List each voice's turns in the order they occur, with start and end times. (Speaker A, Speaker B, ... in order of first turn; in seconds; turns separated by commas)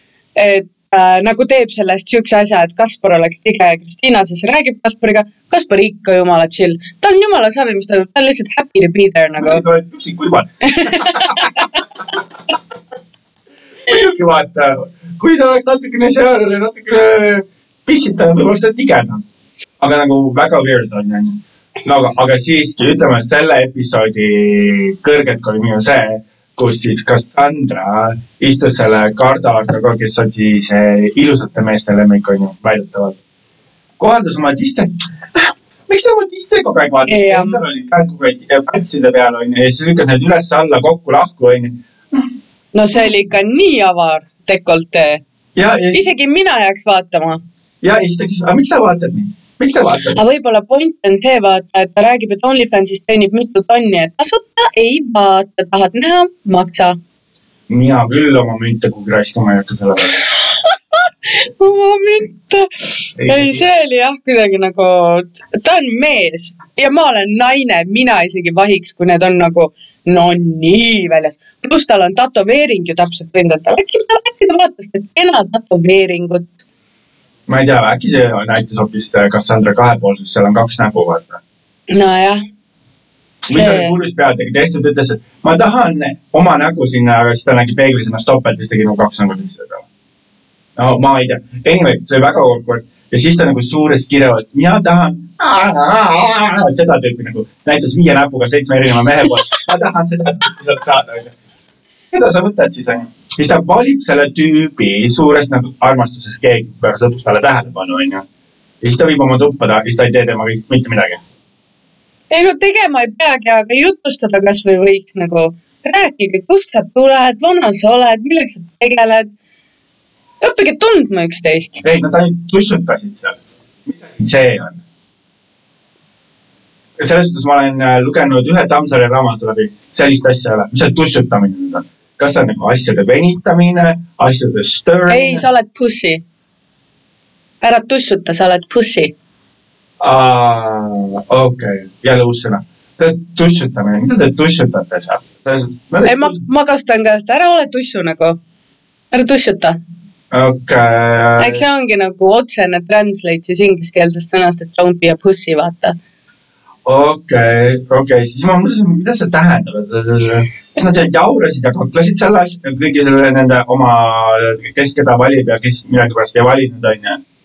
Speaker A: 0.3-9.6, Speaker B: 9.4-11.6, Speaker A: 10.7-11.4, Speaker B: 13.9-19.2, Speaker B: 19.8-33.2, Speaker B: 34.0-42.3, Speaker A: 37.1-37.6, Speaker A: 42.7-45.2, Speaker B: 45.5-46.0, Speaker A: 45.9-47.4, Speaker B: 47.8-50.2, Speaker A: 50.2-57.0, Speaker B: 57.7-60.3, Speaker A: 61.0-76.5, Speaker B: 63.2-63.6, Speaker B: 77.5-81.4, Speaker A: 81.9-82.4, Speaker B: 83.5-89.8, Speaker A: 83.5-84.0, Speaker B: 90.8-101.3, Speaker B: 102.1-108.2, Speaker B: 108.8-111.2, Speaker A: 112.3-119.3, Speaker A: 120.4-121.8, Speaker B: 121.8-124.8, Speaker B: 127.0-135.4, Speaker A: 135.1-136.2, Speaker A: 137.6-139.1, Speaker B: 140.0-146.4, Speaker A: 146.0-148.4, Speaker A: 149.1-149.8, Speaker B: 150.3-151.6, Speaker A: 151.4-156.0, Speaker B: 156.8-167.2